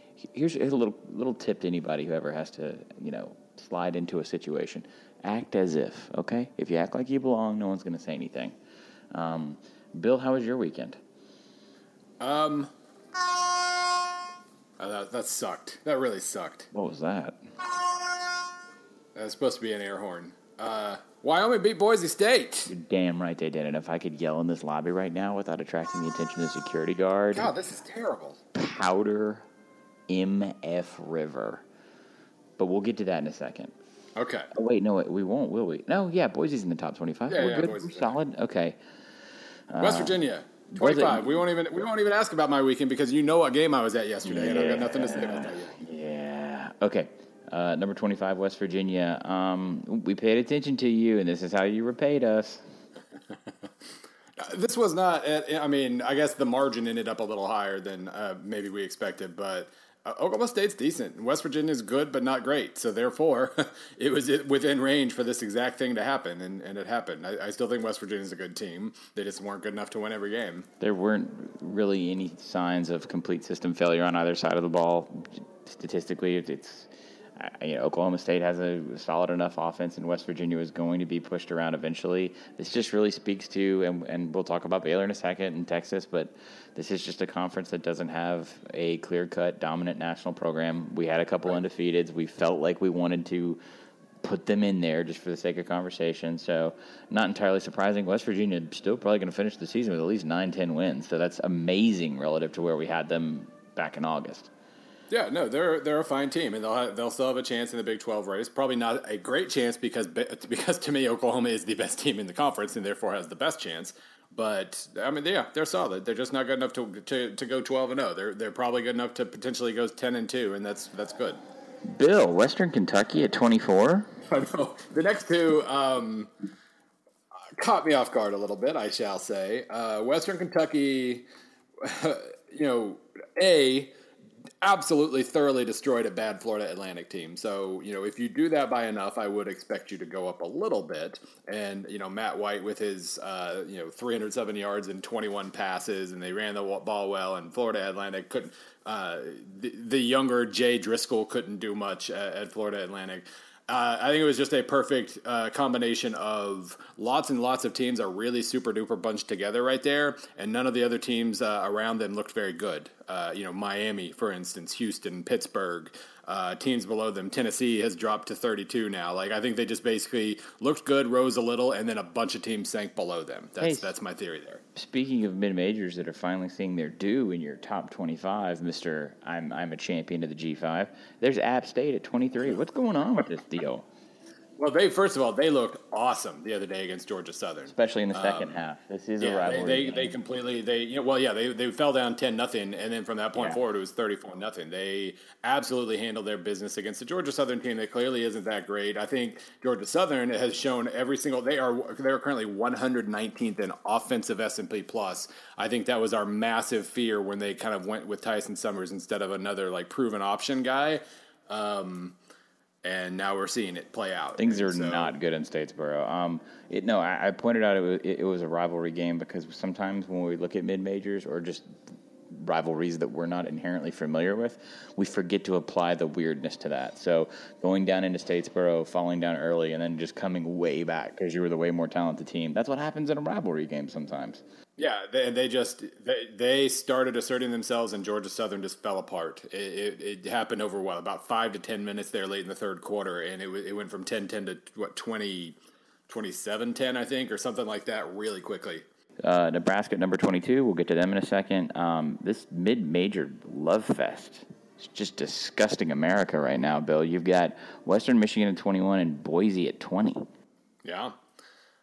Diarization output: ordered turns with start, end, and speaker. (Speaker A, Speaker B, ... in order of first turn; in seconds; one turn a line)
Speaker A: 0.2-8.5
Speaker A: 9.1-11.0
Speaker B: 12.2-12.7
Speaker B: 13.2-13.7
Speaker B: 14.8-16.7
Speaker A: 16.7-17.4
Speaker B: 19.1-22.7
Speaker A: 22.7-27.5
Speaker B: 27.3-28.4
Speaker A: 28.5-29.4
Speaker A: 30.1-31.6
Speaker A: 32.6-33.7
Speaker B: 34.1-34.5
Speaker A: 34.5-38.8
Speaker B: 37.3-38.1
Speaker A: 39.7-40.2
Speaker B: 39.8-45.7
Speaker A: 40.7-41.3
Speaker A: 44.2-52.6
Speaker B: 54.4-70.7
Speaker A: 70.8-93.6
Speaker A: 94.2-104.5
Speaker B: 105.1-121.4
Speaker A: 121.8-124.1
Speaker B: 124.3-126.3
Speaker B: 127.6-131.2
Speaker B: 131.8-133.9
Speaker B: 134.6-174.6
Speaker A: 173.6-173.9
Speaker A: 174.7-183.8
Speaker B: 184.6-188.6
Speaker A: 187.7-190.1
Speaker B: 189.2-212.2
Speaker B: 212.8-215.1
Speaker A: 214.4-221.7
Speaker A: 222.3-234.4
Speaker B: 234.8-245.6
Speaker B: 246.1-248.8
Speaker A: 249.2-260.3
Speaker B: 260.8-261.2